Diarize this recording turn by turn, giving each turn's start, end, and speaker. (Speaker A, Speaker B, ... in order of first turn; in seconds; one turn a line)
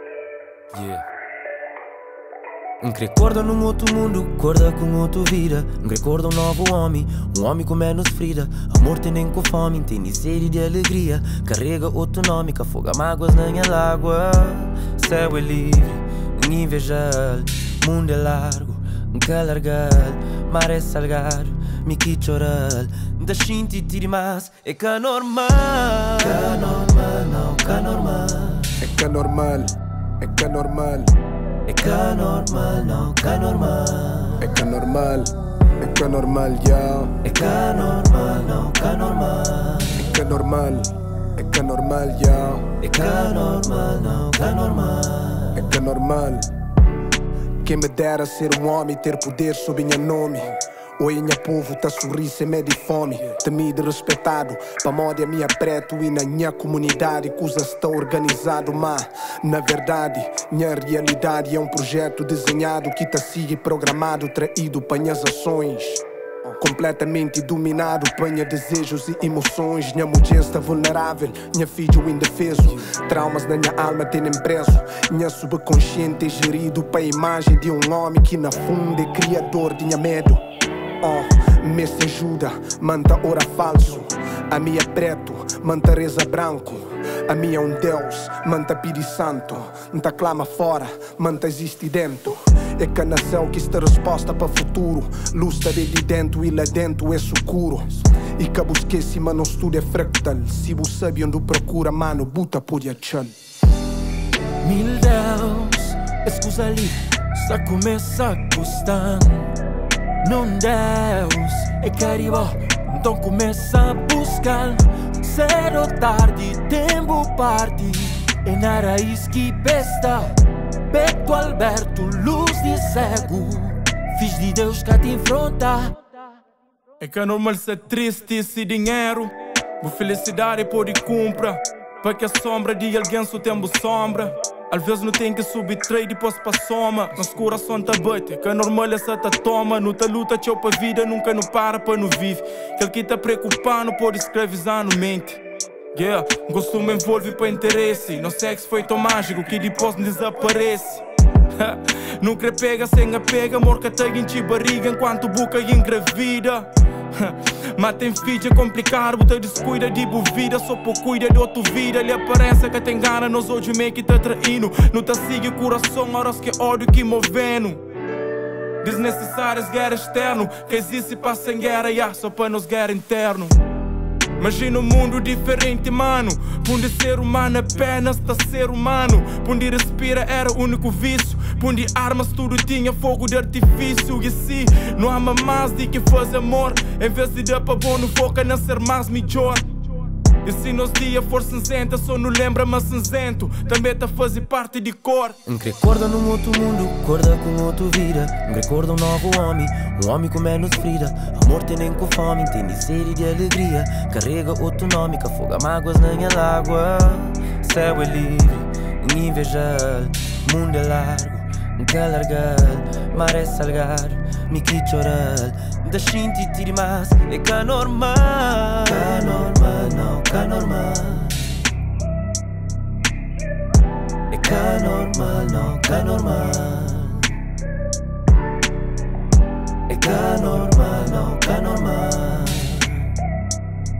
Speaker A: 0.7-1.0
Speaker A: 2.8-28.9
Speaker B: 28.8-31.1
Speaker A: 31.6-34.5
Speaker B: 34.4-37.2
Speaker A: 37.2-40.0
Speaker B: 40.0-42.7
Speaker A: 42.8-45.7
Speaker B: 45.5-46.5
Speaker B: 47.6-66.0
Speaker B: 66.6-80.4
Speaker B: 81.0-103.3
Speaker A: 104.6-109.5
Speaker A: 110.2-120.3
Speaker A: 120.9-126.0
Speaker C: 127.0-145.4
Speaker C: 145.9-167.8
Speaker C: 168.8-173.6
Speaker C: 174.4-189.7
Speaker C: 190.4-195.4
Speaker A: 195.4-221.7
Speaker A: 224.3-227.4
Speaker A: 229.9-233.1